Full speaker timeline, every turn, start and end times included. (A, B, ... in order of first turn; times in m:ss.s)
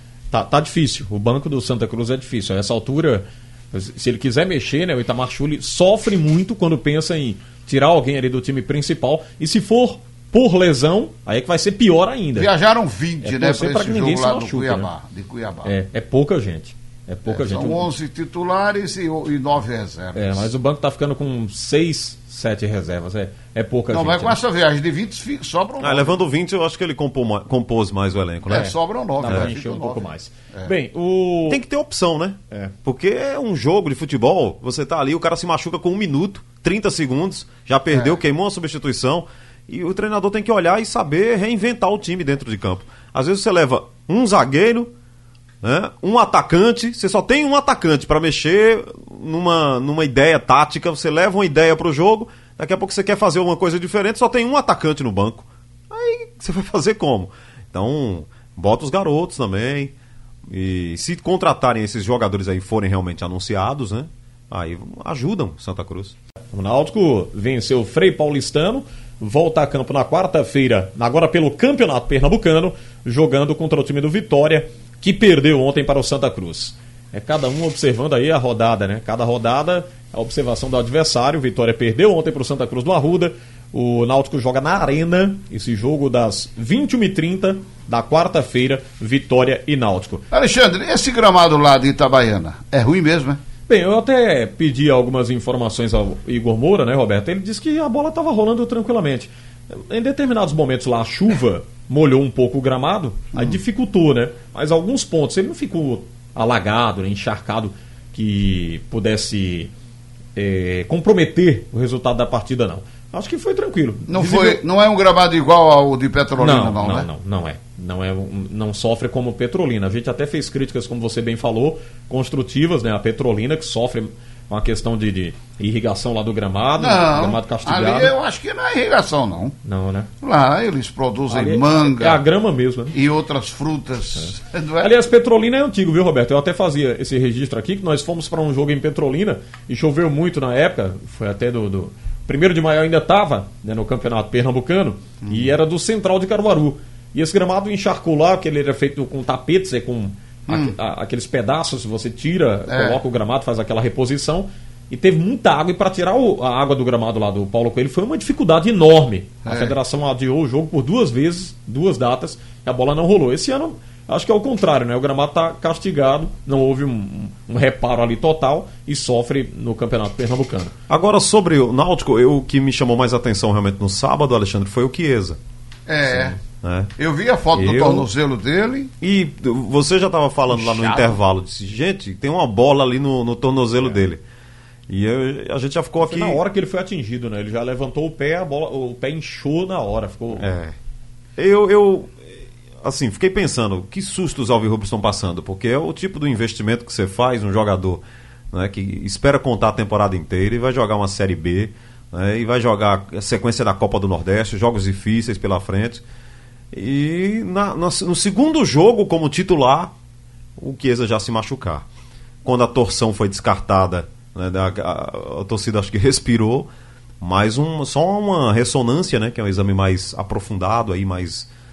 0:00.3-0:12.5 A
0:12.4-0:15.7 B
0:13.2-0:14.9 A
0:15.6-0:17.9 A
0:17.3-0:20.5 B
0:20.2-0:24.4 A
0:23.9-0:26.2 B
0:25.8-0:28.7 C
0:28.5-0:30.7 B
0:28.5-0:31.6 A
0:29.2-0:29.5 C
0:31.5-0:44.9 C
0:37.9-0:38.2 B
0:45.6-0:59.9 C
1:00.5-1:06.2 C
1:06.5-1:30.3 A
1:30.3-1:33.4 B
1:33.7-1:49.7 A
1:50.4-1:54.6 A
1:54.1-1:57.1 B
1:56.4-2:08.1 A
2:06.8-2:09.6 B
2:09.6-2:10.1 A
2:10.2-2:12.2 B
2:11.3-2:13.0 A
2:12.9-2:14.9 B
2:14.2-2:50.7 A
2:30.5-2:30.7 B
2:32.7-2:33.0 B
2:39.5-2:39.8 B
2:50.9-2:55.4 C
2:55.9-2:56.4 B
2:56.6-2:56.9 C
2:57.0-2:58.9 B
2:57.5-2:58.1 C
2:59.0-3:04.2 C
3:00.5-3:01.2 B
3:04.9-3:06.4 C
3:06.0-3:10.5 A
3:10.4-3:10.8 C
3:11.4-3:12.2 C
3:12.8-3:26.0 C
3:26.7-3:29.9 C
3:30.6-3:31.9 C
3:32.4-3:36.7 C
3:37.2-3:41.5 C